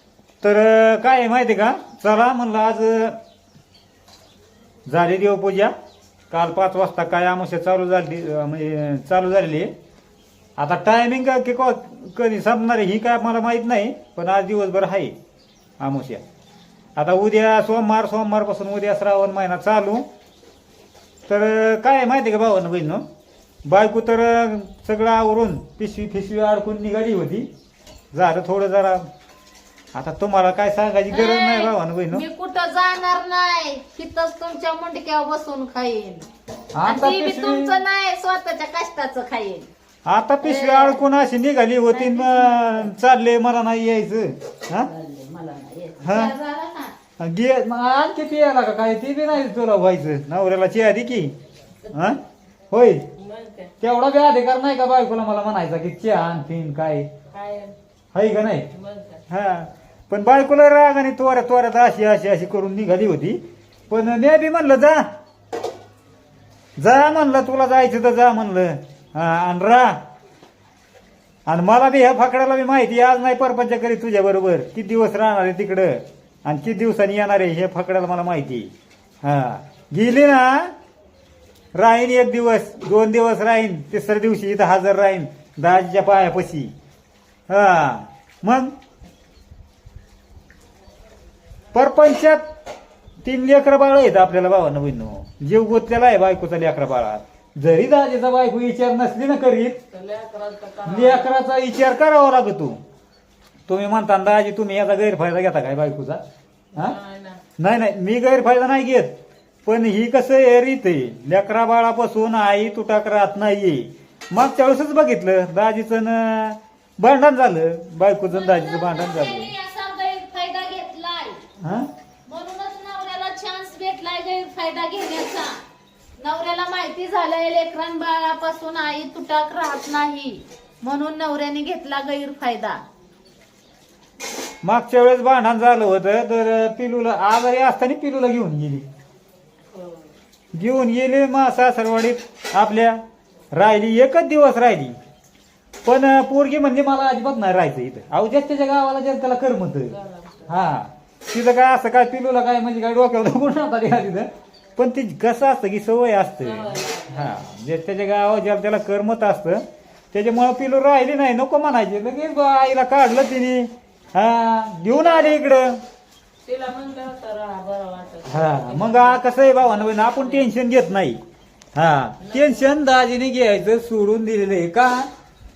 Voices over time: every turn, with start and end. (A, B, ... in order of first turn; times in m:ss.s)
0:00.4-0:03.2 A
0:04.9-0:05.7 A
0:06.3-0:09.7 A
0:10.6-0:15.2 A
0:15.8-0:16.2 A
0:17.0-0:20.1 A
0:21.3-0:23.0 A
0:23.6-0:27.5 A
0:28.1-0:29.1 A
0:29.9-0:32.2 A
0:31.1-0:36.3 B
0:36.7-0:37.8 A
0:36.8-0:39.7 B
0:40.1-0:44.9 A
0:40.4-0:41.0 B
0:41.9-0:42.9 B
0:44.7-0:47.0 B
0:46.0-0:46.4 A
0:47.2-0:51.4 A
0:51.8-0:52.2 B
0:51.9-0:52.2 A
0:52.7-0:53.0 A
0:53.2-0:53.7 C
0:53.8-0:57.1 A
0:57.3-0:57.7 C
0:58.1-0:58.7 A
0:58.7-0:59.2 C
0:59.3-1:05.1 A
1:06.8-1:10.0 A
1:11.5-1:18.7 A
1:19.2-1:20.7 A
1:21.7-1:26.7 A
1:27.5-1:28.8 A
1:31.7-1:32.4 A
1:33.2-1:39.8 A
1:39.9-1:41.3 C
1:40.9-1:42.8 A
1:43.7-1:46.2 A
1:46.8-1:47.4 C
1:47.6-1:49.1 A
1:49.7-1:59.5 A
1:58.2-2:01.4 B
2:01.6-2:01.9 A
2:02.3-2:05.6 B
2:06.2-2:12.8 B
2:14.6-2:18.8 A
2:19.7-2:20.1 C
2:20.6-2:23.0 A
2:23.5-2:25.0 A
2:25.8-2:29.9 A
2:29.9-2:30.6 C
2:30.5-2:45.8 A
2:36.4-2:37.4 C
2:44.9-2:45.6 C
2:46.4-2:50.5 C
2:48.3-2:51.2 A
2:51.8-2:55.1 A
2:52.2-2:52.7 C